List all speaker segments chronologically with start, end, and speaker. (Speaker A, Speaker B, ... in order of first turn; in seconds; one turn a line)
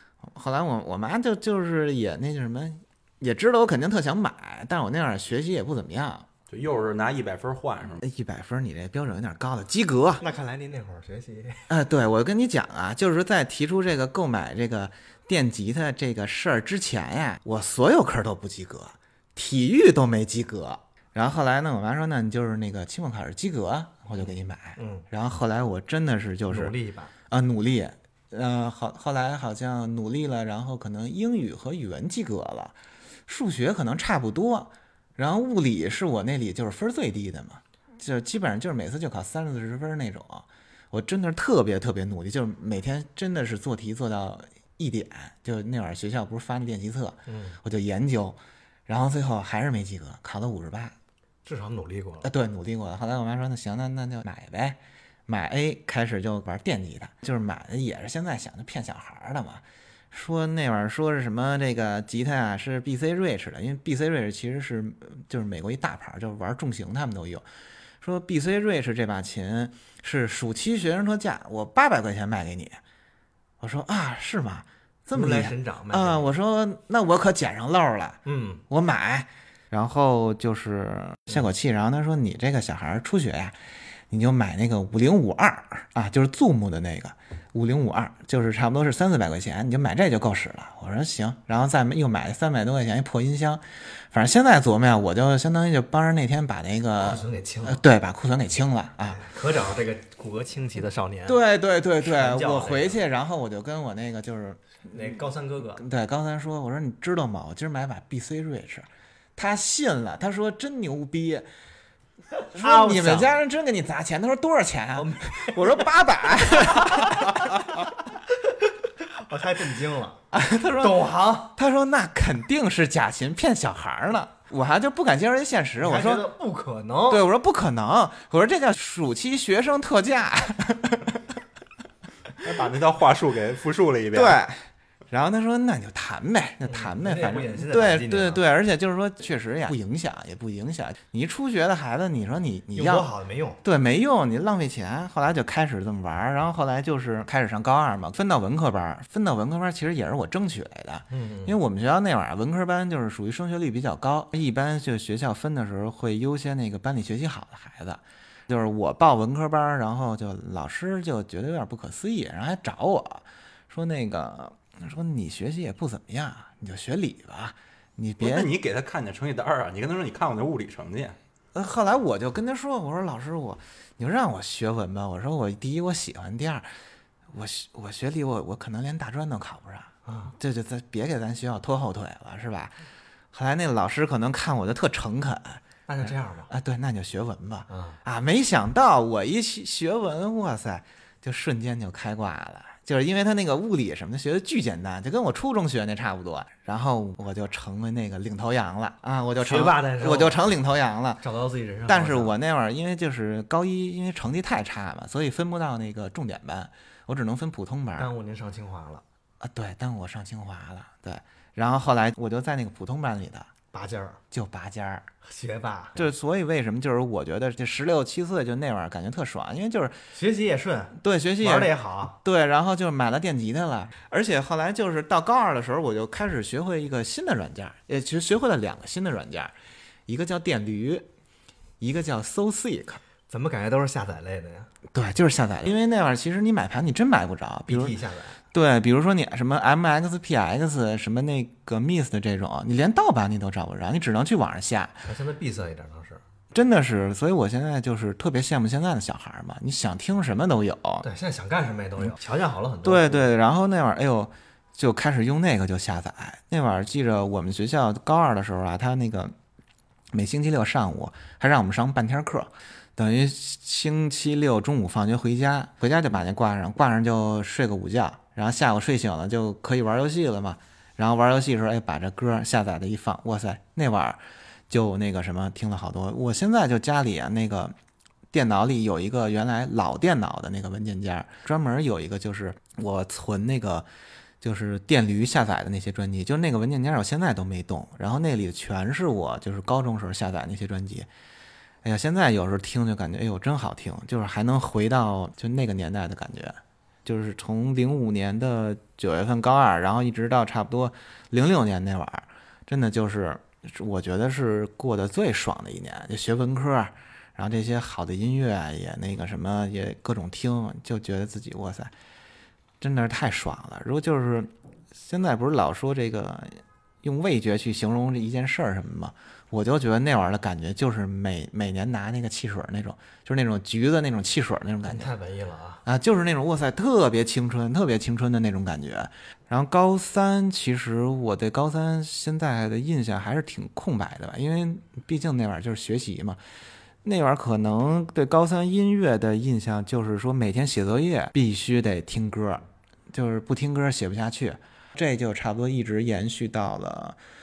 Speaker A: 0.2-6.3
Speaker B: 6.5-8.0
Speaker A: 8.0-10.2
Speaker C: 10.2-11.7
Speaker A: 11.7-26.7
Speaker C: 24.8-25.1
Speaker C: 26.5-27.1
Speaker A: 27.3-32.8
Speaker A: 33.3-50.9
Speaker C: 47.3-47.6
Speaker C: 51.4-52.3
Speaker A: 52.2-67.4
Speaker A: 68.0-72.8
Speaker A: 73.6-83.6
Speaker C: 75.1-76.3
Speaker C: 78.2-78.6
Speaker A: 84.1-99.2
Speaker C: 97.0-97.8
Speaker C: 99.1-101.4
Speaker A: 101.3-105.2
Speaker C: 102.0-103.0
Speaker C: 104.9-105.8
Speaker A: 105.8-111.5
Speaker C: 112.4-113.4
Speaker A: 112.5-117.9
Speaker C: 114.9-115.9
Speaker C: 116.5-117.6
Speaker C: 119.0-121.5
Speaker A: 120.3-126.3
Speaker C: 125.8-127.2
Speaker A: 127.1-131.2
Speaker B: 132.4-134.4
Speaker A: 134.1-143.1
Speaker C: 136.6-138.4
Speaker C: 142.7-143.6
Speaker A: 143.6-168.5
Speaker C: 151.1-151.6
Speaker B: 168.2-171.2
Speaker A: 171.5-176.7
Speaker A: 177.3-182.8
Speaker C: 180.1-180.3
Speaker A: 183.3-201.2
Speaker C: 185.9-186.5
Speaker C: 187.7-188.0
Speaker C: 199.4-200.4
Speaker C: 201.2-202.3
Speaker A: 201.9-208.1
Speaker C: 208.0-209.0
Speaker A: 209.4-213.5
Speaker C: 213.7-214.2
Speaker A: 214.3-215.1
Speaker C: 215.2-216.1
Speaker A: 215.9-220.1
Speaker C: 220.1-222.2
Speaker A: 221.0-229.5
Speaker A: 230.1-231.1
Speaker A: 231.8-233.0
Speaker C: 233.3-234.7
Speaker A: 234.9-238.0
Speaker C: 237.7-238.4
Speaker A: 238.5-245.0
Speaker C: 245.0-246.2
Speaker A: 246.5-251.0
Speaker C: 251.0-253.3
Speaker A: 252.8-259.3
Speaker A: 260.1-277.7
Speaker A: 278.3-283.9
Speaker A: 284.4-291.1
Speaker A: 291.8-311.9
Speaker A: 312.8-325.1
Speaker C: 324.9-325.8
Speaker A: 325.8-336.4
Speaker A: 337.0-347.2